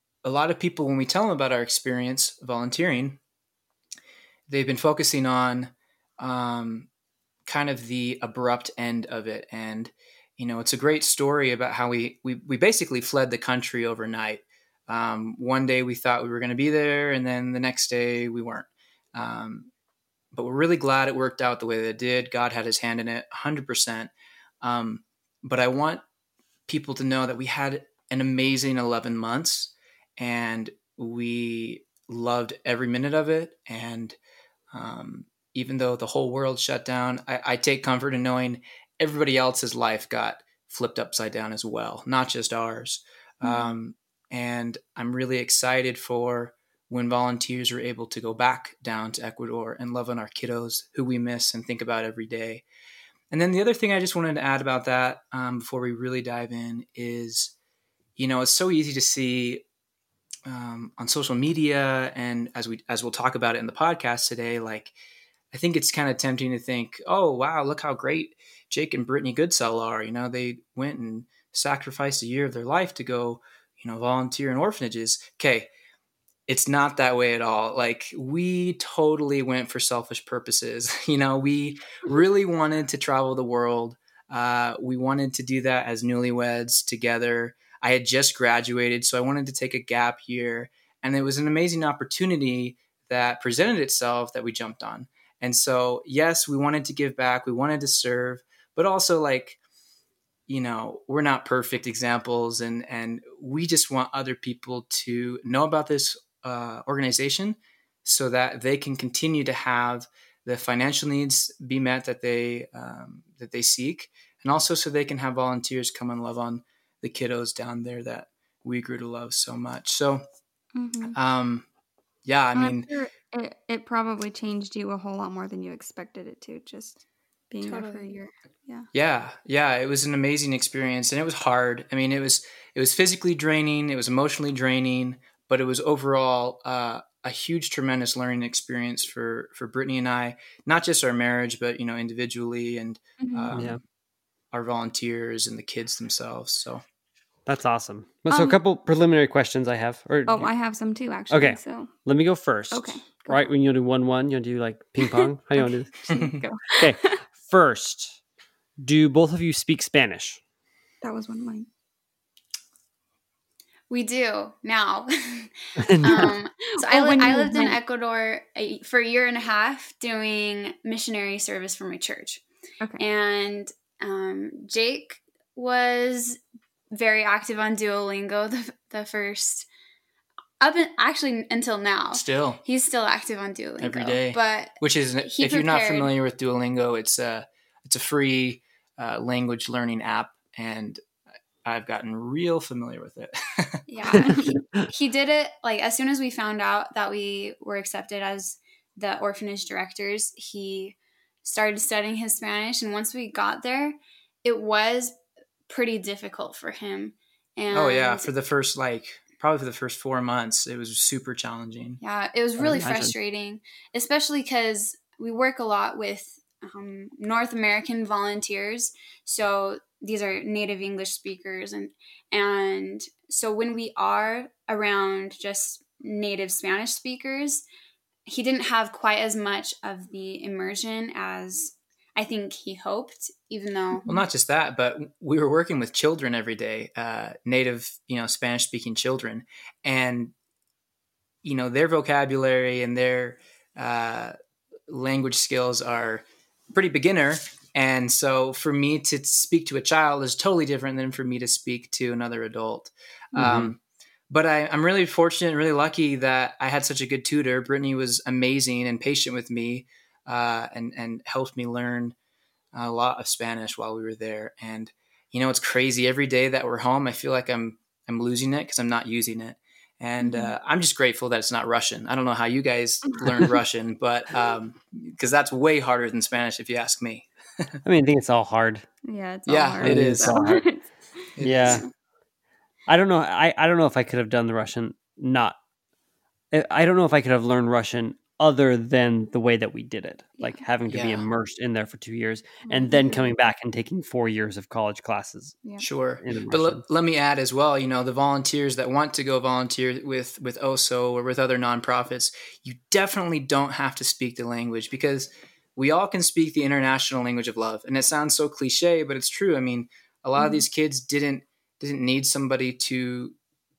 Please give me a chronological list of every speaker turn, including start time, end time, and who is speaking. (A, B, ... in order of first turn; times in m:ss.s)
0:00.2-0:03.2 A
0:04.5-0:06.9 A
0:07.4-0:19.7 A
0:20.3-0:24.1 A
0:24.6-0:26.0 A
0:26.7-0:34.2 A
0:34.7-0:52.6 A
0:43.4-0:43.7 B
0:53.3-0:57.5 A
0:58.2-0:59.6 A
1:00.4-1:04.9 A
1:05.5-1:15.7 A
1:16.5-1:39.6 A
1:40.5-2:00.2 A
2:00.7-2:01.2 B
2:01.1-2:01.6 A
2:02.2-2:02.9 A
2:02.5-2:08.9 B
2:07.6-2:08.1 C
2:08.9-2:23.8 A
2:23.2-2:23.6 B
2:23.5-2:23.8 D
2:24.5-2:26.8 A
2:27.4-2:30.6 D
2:28.3-2:28.6 B
2:30.3-2:32.0 B
2:31.3-2:36.1 D
2:32.7-2:33.5 B
2:35.0-2:37.2 B
2:36.1-2:36.4 A
2:36.7-2:38.2 D
2:38.8-2:40.4 D
2:41.0-2:41.7 B
2:43.9-2:52.4 C
2:45.8-2:46.4 D
2:46.2-2:47.8 B
2:53.0-2:56.4 C
2:56.9-2:59.7 C
3:00.6-3:06.1 C
3:02.1-3:02.6 A
3:03.8-3:11.0 A
3:11.6-3:13.8 A
3:13.9-3:28.3 C
3:14.1-3:14.8 D
3:27.7-3:32.0 A
3:32.0-3:47.6 C
3:32.6-3:33.1 D
3:48.2-3:54.1 C
3:54.0-4:00.3 A
4:01.4-4:04.3 A
4:04.9-4:22.1 A
4:13.4-4:13.7 D
4:22.7-4:37.8 A
4:30.2-4:30.5 B
4:37.8-4:38.9 D
4:39.0-4:41.8 B
4:39.5-4:40.4 A
4:39.8-4:40.6 D
4:41.4-4:41.8 A
4:41.4-4:41.8 D
4:42.9-4:45.6 D
4:46.5-4:55.6 D
4:50.9-4:51.3 A
4:52.7-4:53.3 B
4:55.8-5:13.3 A
4:56.2-4:56.8 D
5:10.4-5:10.6 B